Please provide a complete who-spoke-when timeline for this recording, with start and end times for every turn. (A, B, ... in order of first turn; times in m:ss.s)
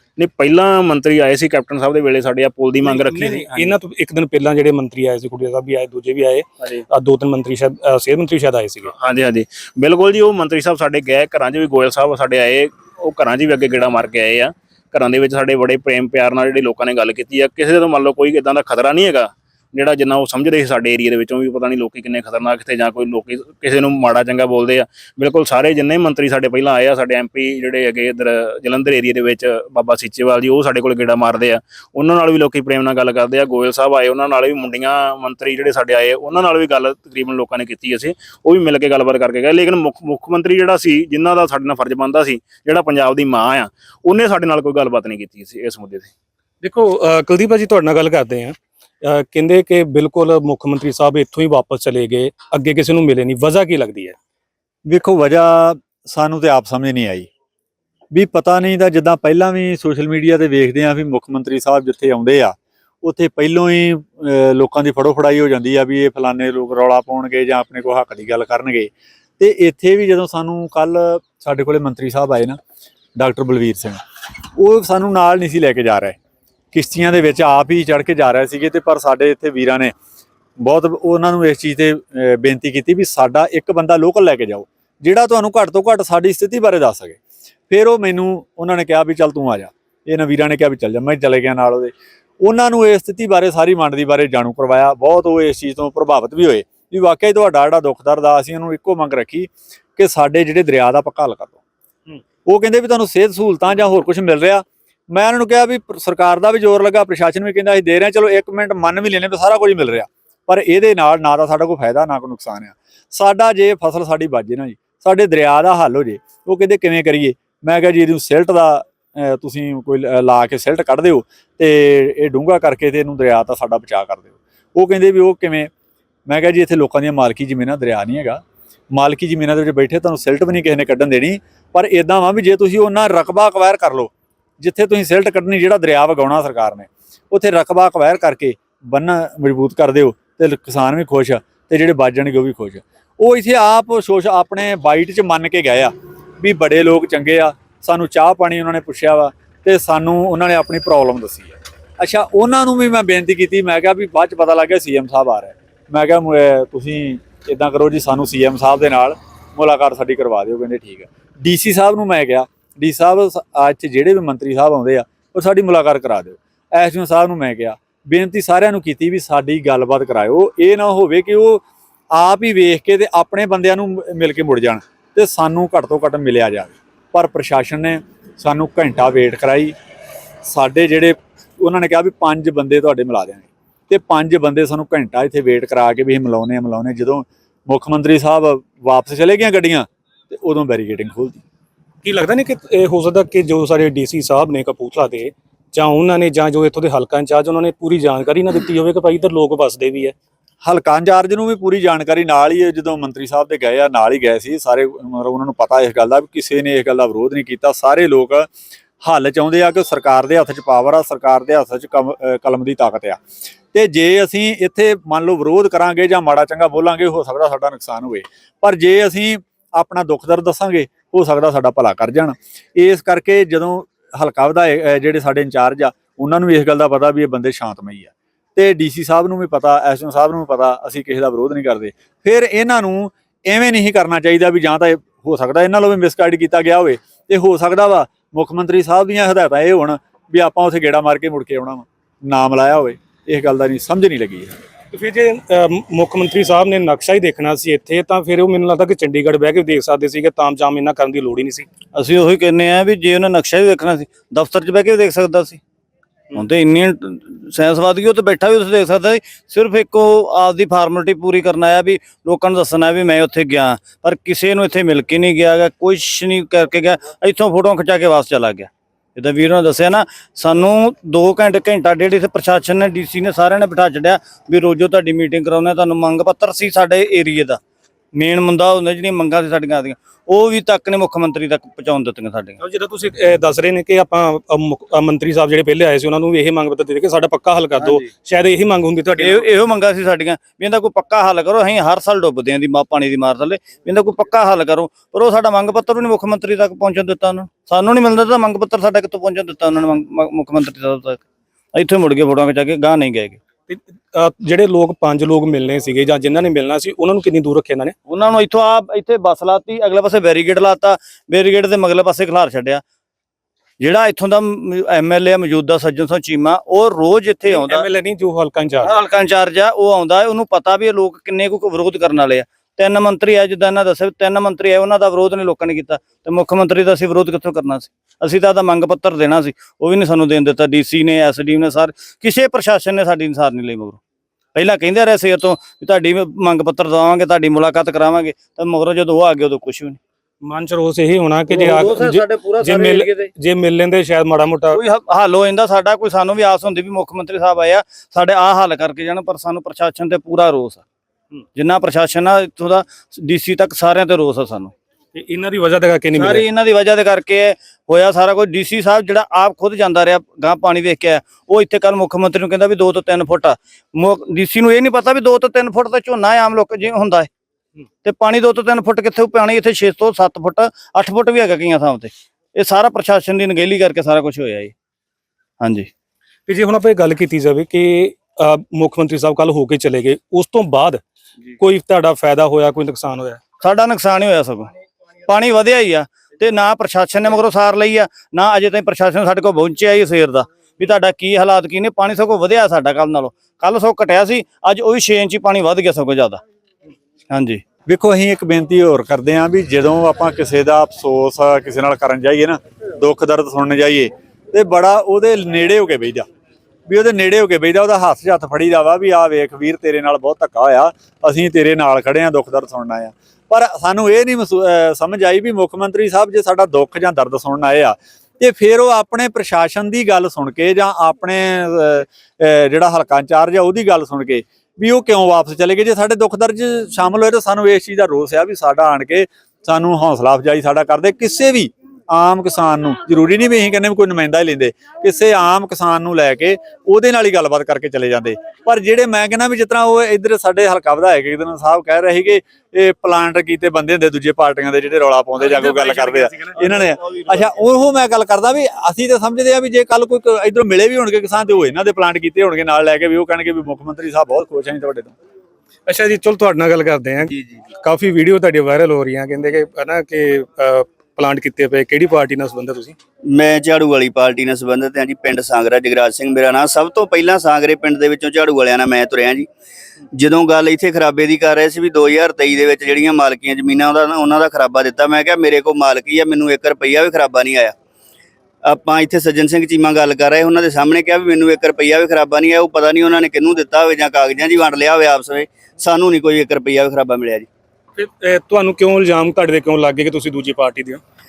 0:00.2-0:03.7 A
0:02.8-0:08.9 B
0:09.0-0:46.1 A
0:46.6-0:54.2 B
0:54.9-0:57.3 C
0:58.1-1:12.6 C
1:13.2-1:14.0 C
1:14.6-1:16.2 C
1:16.7-1:19.9 C
1:20.6-1:27.2 C
1:27.7-1:31.9 C
1:32.4-1:41.6 C
1:42.5-2:05.7 C
2:06.3-2:08.4 C
2:08.9-2:51.6 C
2:52.1-2:59.7 C
3:00.4-3:11.4 C
3:12.0-3:20.1 B
3:20.6-3:28.5 C
3:29.0-3:33.2 C
3:33.7-4:04.5 C
4:04.9-4:11.7 B
4:11.9-4:15.6 D
4:16.4-4:37.6 D
4:38.2-4:42.6 D
4:42.6-4:49.4 B
4:49.2-5:01.2 D
5:01.7-5:03.4 D
5:03.7-5:07.9 B
5:08.1-5:12.8 D
5:13.8-5:17.9 D
5:17.4-5:18.9 B
5:18.8-5:34.0 D
5:34.5-5:40.0 D
5:40.4-5:44.8 B
5:41.5-5:43.3 D
5:44.7-5:50.8 D
5:51.6-5:54.7 D
5:55.1-5:56.5 B
5:56.1-6:07.3 D
6:08.0-6:14.7 D
6:15.6-6:15.9 D
6:16.5-6:21.0 B
6:21.6-6:23.4 B
6:23.6-6:24.7 D
6:25.3-6:36.4 D
6:37.3-6:37.6 D
6:37.8-6:46.3 C
6:46.9-7:35.1 C
7:25.4-7:26.5 B
7:35.8-7:42.9 B
7:37.3-7:37.6 E
7:43.3-7:49.5 E
7:50.2-7:57.7 E
7:58.6-8:07.4 E
8:08.0-8:11.0 B